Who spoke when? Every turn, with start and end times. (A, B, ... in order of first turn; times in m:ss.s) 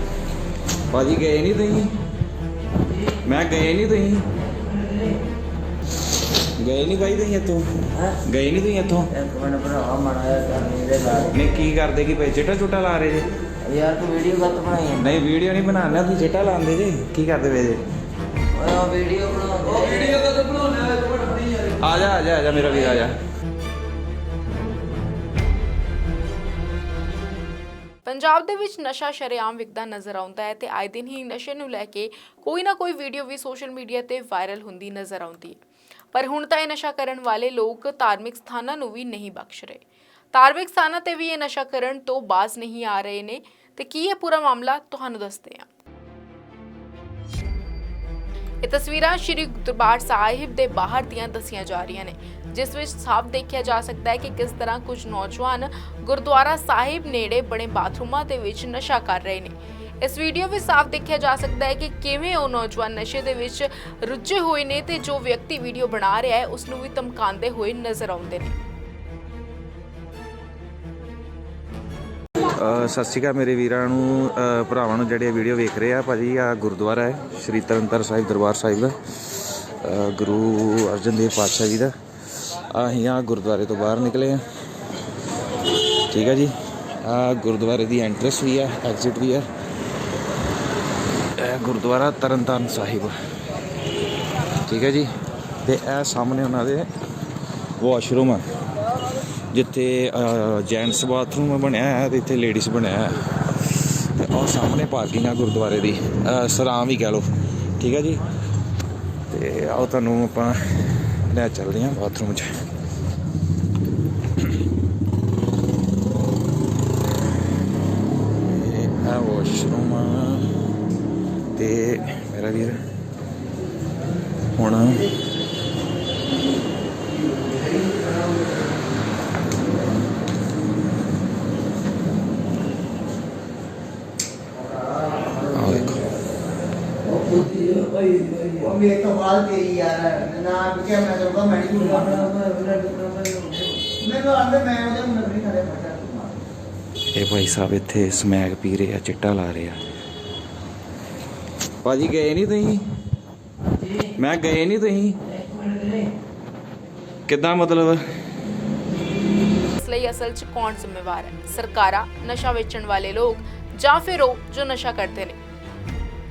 0:00.9-0:01.9 A
0:03.0-0:04.2 A
0:04.5-0:05.1 B
0:06.6-0:09.1 A
0:09.1-0:11.5 B
0:11.3-0:13.3 A
0:13.6-0:15.1 B
0:15.0-0:17.8 A
0:18.5-0:20.6 B
0:20.5-0:23.2 A
0:28.0-0:35.6 C
0:36.1-0:39.8 C
0:40.3-0:45.7 C
0:48.6-1:08.6 C
1:12.5-1:24.4 A
1:26.1-1:29.5 A
1:31.4-1:33.2 A
1:34.6-1:35.1 A
1:35.6-1:36.9 A
1:37.8-1:38.4 A
1:39.5-1:47.3 A
1:47.8-1:48.2 A
1:49.3-1:50.6 A
1:51.2-1:52.5 A
1:58.4-2:00.5 A
2:01.6-2:02.8 A
2:04.6-2:05.1 A
2:14.9-2:15.3 D
2:15.4-2:16.1 A
2:17.1-2:18.7 B
2:18.7-2:26.4 D
2:21.9-2:23.5 B
2:27.2-2:29.8 A
2:31.8-2:32.8 A
2:34.1-2:35.3 A
2:35.5-2:36.0 B
2:37.3-2:38.0 A
2:39.8-2:45.4 C